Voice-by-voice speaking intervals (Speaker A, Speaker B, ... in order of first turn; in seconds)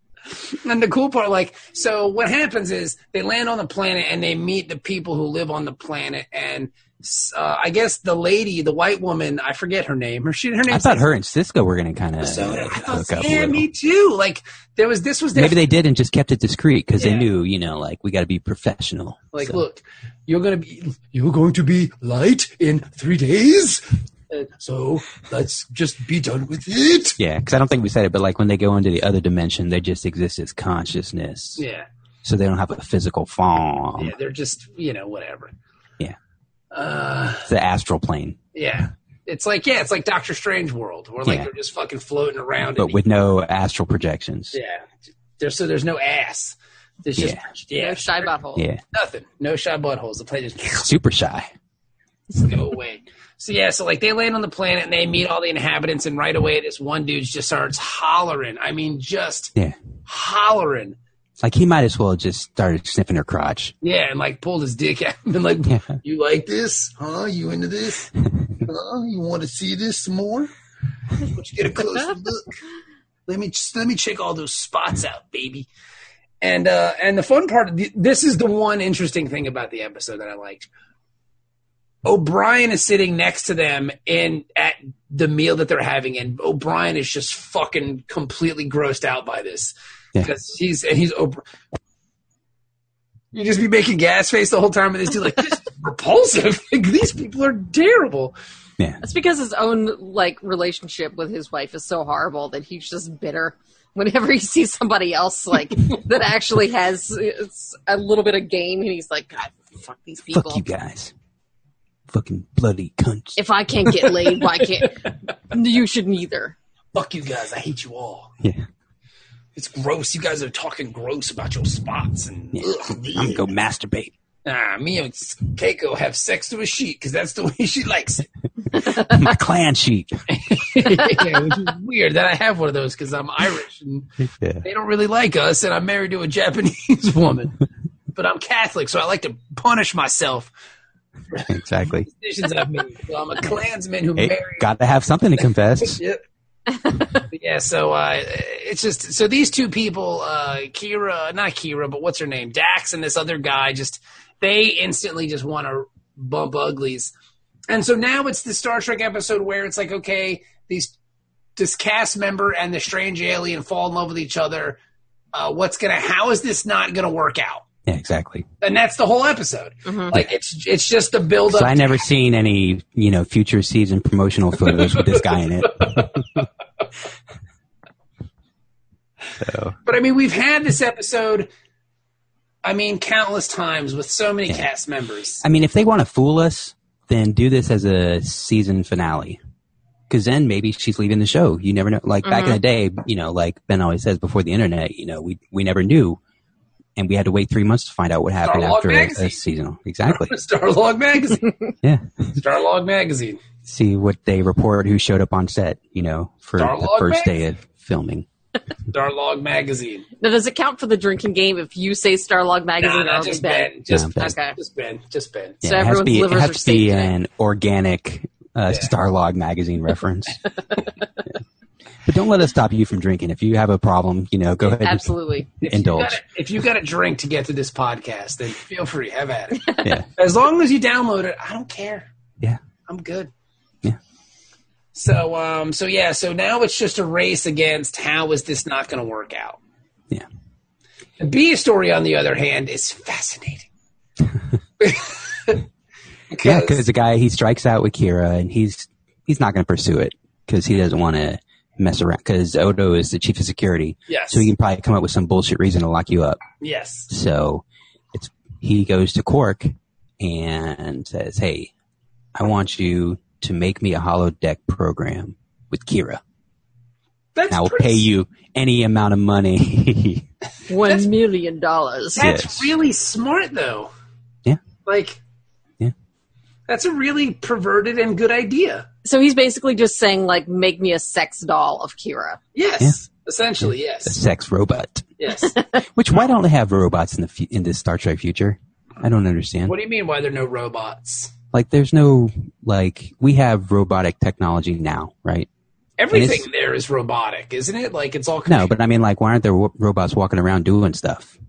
Speaker A: 0.3-11.1, 12.2-15.6, 17.0-17.3, 19.3-27.2, 31.6-31.9, 34.0-35.5, 36.7-37.5, 38.5-43.0, 44.5-48.3, 48.9-50.9, 52.3-59.5, 60.0-61.0, 63.8-70.5, 71.2-72.5, 73.3-75.7, 76.4-80.7, 82.0-91.4, 93.3-98.3, 114.0-115.1, 116.9-118.3, 119.5-123.5, 124.4-128.2, 130.3-134.1, 134.6-137.6, 138.1-140.5, 141.3-144.7, 145.8-146.2, 147.2-157.1, 157.7-160.9, 161.6-164.8, 165.3-167.6, 168.6-172.0, 174.7-176.4, 179.8-181.5, 182.6-185.4, 198.4-199.4, 200.1-201.5, 202.3-203.4, 206.6-207.3, 208.9-210.1, 212.8-215.6, 225.6-232.1, 232.9-233.3, 234.9-239.6, 241.2-243.7, 244.8-245.6, 246.3-246.8, 254.1-254.5, 256.6-257.1, 267.3-268.1, 270.8-271.1, 272.1-273.9, 274.8-275.2, 276.7-278.9, 282.5-284.2, 285.2-285.6, 289.6-291.3, 296.0-298.7
Speaker B: 10.7-13.6, 15.3-19.6, 27.2-31.6, 32.2-34.1, 37.5-38.4, 42.8-44.6, 47.2-47.4, 48.5-48.8, 50.8-51.5, 61.4-63.7, 65.7-65.9, 110.3-111.1, 112.1-113.4, 118.4-118.7, 122.5-124.1, 128.7-130.2, 134.2-134.6, 141.5-142.1, 144.2-146.0, 167.8-168.4, 171.5-176.4, 179.4-179.8, 185.4-189.4, 190.1-196.2, 196.9-200.3, 201.8-202.3, 203.7-208.2, 213.9-214.3, 215.6-220.4, 222.1-226.2, 246.4-256.4, 257.1-261.7, 262.3-266.2, 267.5-270.2, 272.2-272.7, 284.0-285.1, 285.9-289.7, 291.5-295.5, 296.1-296.5, 298.5-301.3
Speaker C: 47.8-48.6, 99.0-110.6, 113.3-116.5, 169.8-170.2, 192.2-192.6, 210.2-214.6, 215.6-217.1, 224.7-225.5, 270.7-272.2, 279.0-282.4